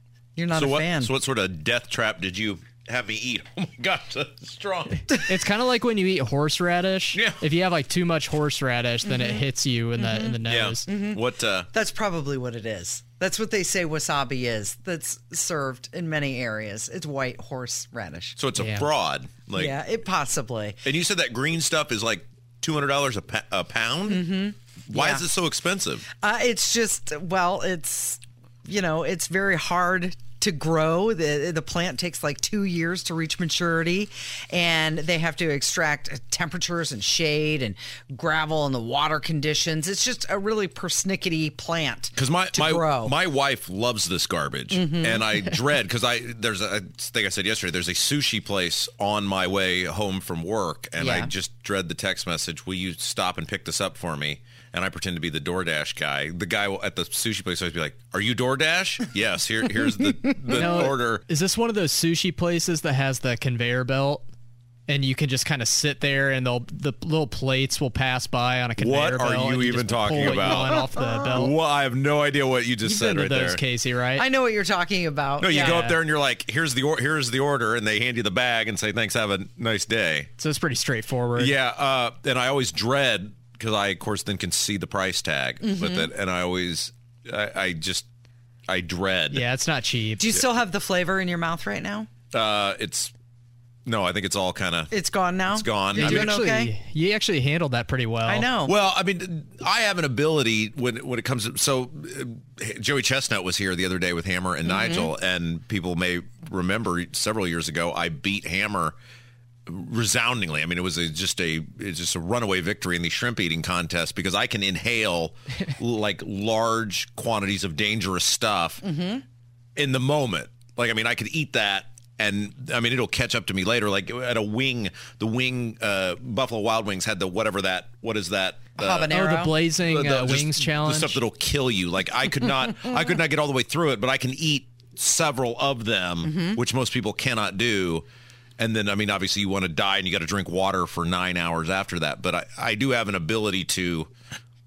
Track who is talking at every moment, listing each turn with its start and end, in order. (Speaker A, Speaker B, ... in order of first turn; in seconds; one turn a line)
Speaker A: 0.3-1.1
Speaker B: 0.5-5.3
Speaker C: 5.1-10.9
Speaker B: 7.1-7.4
Speaker A: 9.0-9.4
Speaker A: 10.0-11.2
Speaker B: 10.4-11.7
Speaker A: 11.7-18.4
Speaker B: 18.4-19.8
Speaker C: 18.6-18.9
Speaker A: 19.6-20.8
Speaker B: 20.8-24.2
Speaker A: 24.1-25.2
Speaker B: 24.9-26.1
Speaker A: 26.2-43.1
Speaker B: 42.1-61.2
Speaker A: 44.7-45.3
Speaker A: 51.0-51.3
Speaker C: 60.5-64.3
Speaker C: 64.9-71.5
Speaker B: 68.8-73.6
Speaker A: 71.0-71.3
Speaker C: 72.8-74.2
Speaker A: 74.2-75.8
Speaker B: 75.4-80.3
Speaker C: 75.4-76.0
Speaker C: 80.4-81.5
Speaker B: 81.3-88.0
Speaker A: 85.6-86.1
Speaker B: 88.7-89.4
Speaker C: 89.3-90.4
Speaker A: 90.2-92.1
Speaker B: 92.3-93.1
Speaker B: 93.8-94.9
Speaker A: 94.9-96.7
Speaker B: 95.5-96.3
Speaker C: 95.9-98.5
Speaker A: 98.2-98.7
Speaker B: 98.6-109.0
Speaker A: 104.6-105.1
Speaker B: 109.7-118.8
Speaker A: 118.8-119.2
Speaker B: 119.8-129.2
Speaker A: 128.8-129.6
Speaker C: 129.1-131.2
Speaker B: 129.8-138.0
Speaker A: 136.2-136.6
Speaker B: 138.6-144.1